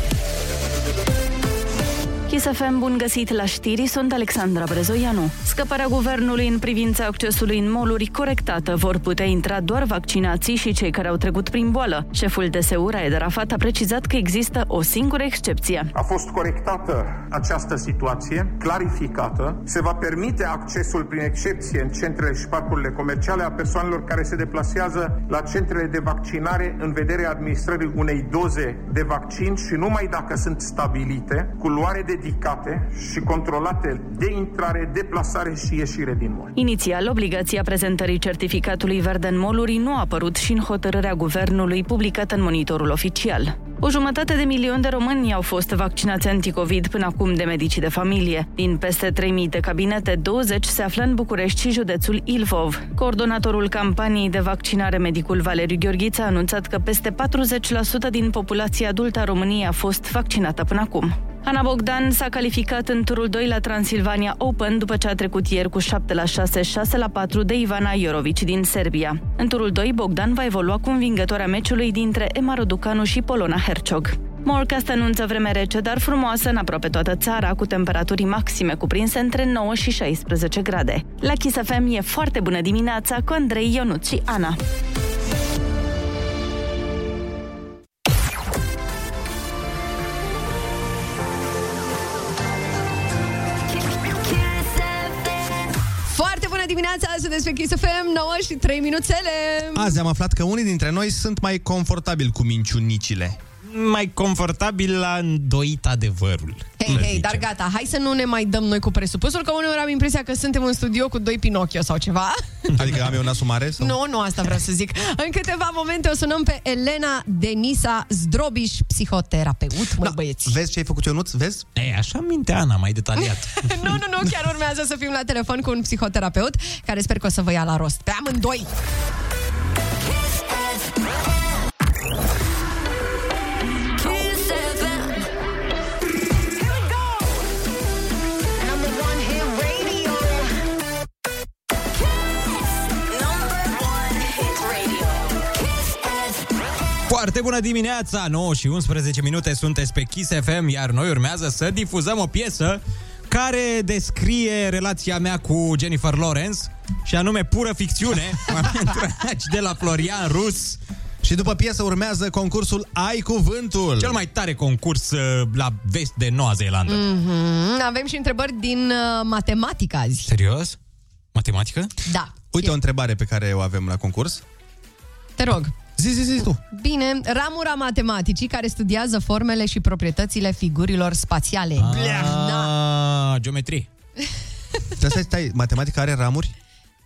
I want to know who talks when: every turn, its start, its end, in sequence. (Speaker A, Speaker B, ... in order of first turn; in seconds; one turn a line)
Speaker A: 2.3-15.9
Speaker B: 15.9-36.5
Speaker A: 36.5-84.6
Speaker C: 93.9-95.3
Speaker D: 96.1-100.0
Speaker E: 99.8-103.4
Speaker F: 103.7-107.5
Speaker D: 106.8-112.4
Speaker E: 112.8-114.0
Speaker D: 113.8-120.6
Speaker E: 120.0-121.7
Speaker F: 121.8-123.8
Speaker D: 123.2-128.7
Speaker C: 134.0-135.2
Speaker C: 142.9-146.4
Speaker F: 147.1-160.8
Speaker E: 161.2-164.2
Speaker F: 164.0-167.0
Speaker D: 166.9-170.3
Speaker F: 170.3-170.8
Speaker F: 171.3-171.9
Speaker D: 172.1-172.7
Speaker E: 172.5-174.4
Speaker D: 175.4-175.8
Speaker F: 176.0-176.5
Speaker D: 176.6-182.7
Speaker F: 181.8-183.9
Speaker E: 185.0-186.5